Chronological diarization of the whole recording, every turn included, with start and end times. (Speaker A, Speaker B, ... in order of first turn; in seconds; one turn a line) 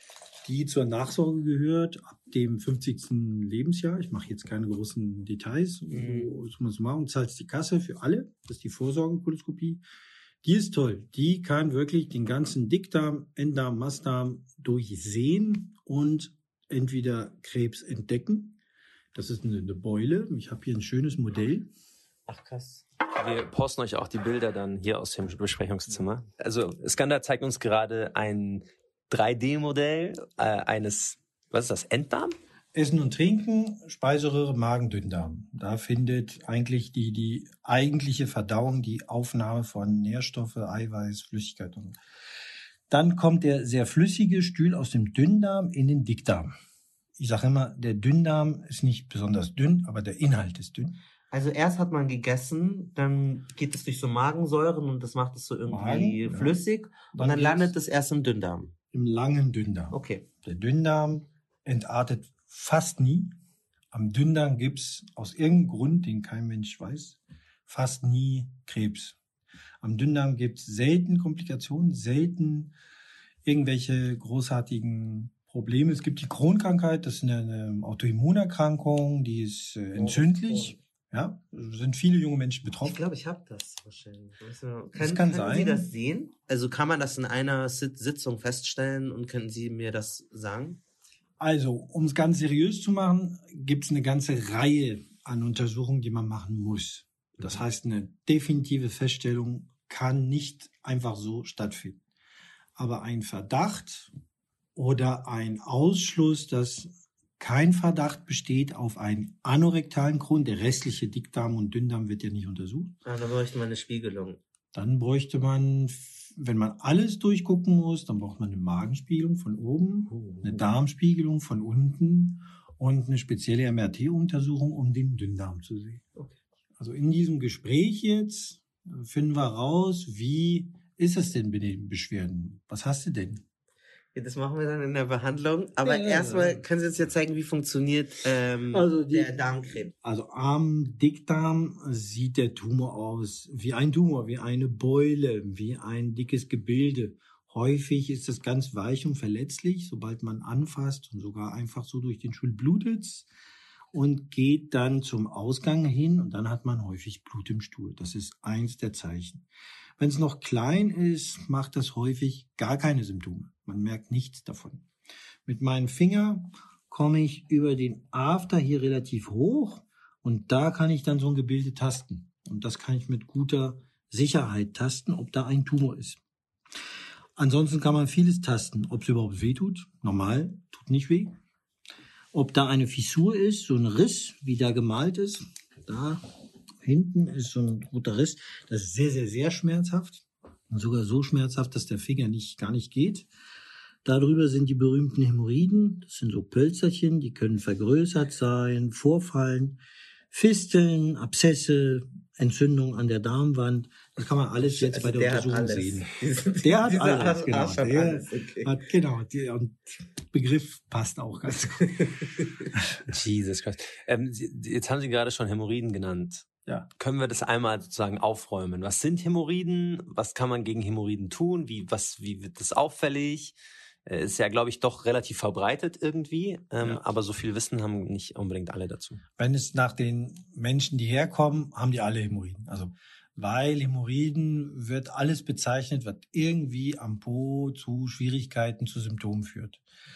Speaker A: 0.5-9.8
Speaker B: 5.9-6.3
Speaker A: 10.4-18.6
Speaker A: 19.1-21.7
Speaker B: 22.3-22.8
Speaker C: 23.2-32.4
Speaker A: 32.7-42.0
Speaker A: 42.9-46.5
Speaker A: 47.2-51.0
Speaker B: 51.3-58.7
Speaker A: 55.7-56.6
Speaker A: 57.1-57.8
Speaker A: 58.9-63.3
Speaker B: 59.9-60.3
Speaker A: 63.9-69.2
Speaker A: 69.8-72.7
Speaker A: 73.5-83.0
Speaker B: 79.9-80.8
Speaker B: 82.8-90.8
Speaker A: 85.0-85.9
Speaker A: 91.4-102.0
Speaker A: 102.8-104.1
Speaker A: 104.8-113.0
Speaker B: 113.0-114.4
Speaker A: 114.7-126.1
Speaker B: 120.2-120.6
Speaker A: 126.8-133.4
Speaker B: 134.2-139.9
Speaker A: 135.8-136.7
Speaker A: 138.7-153.3
Speaker A: 153.9-159.5
Speaker A: 160.0-164.9
Speaker A: 165.5-176.2
Speaker A: 177.4-181.3
Speaker A: 182.3-186.2
Speaker A: 186.8-193.3
Speaker A: 194.1-199.8
Speaker A: 200.3-211.9
Speaker B: 204.6-208.7
Speaker C: 213.1-223.6
Speaker C: 224.1-229.2
Speaker A: 226.8-227.1
Speaker A: 229.4-239.8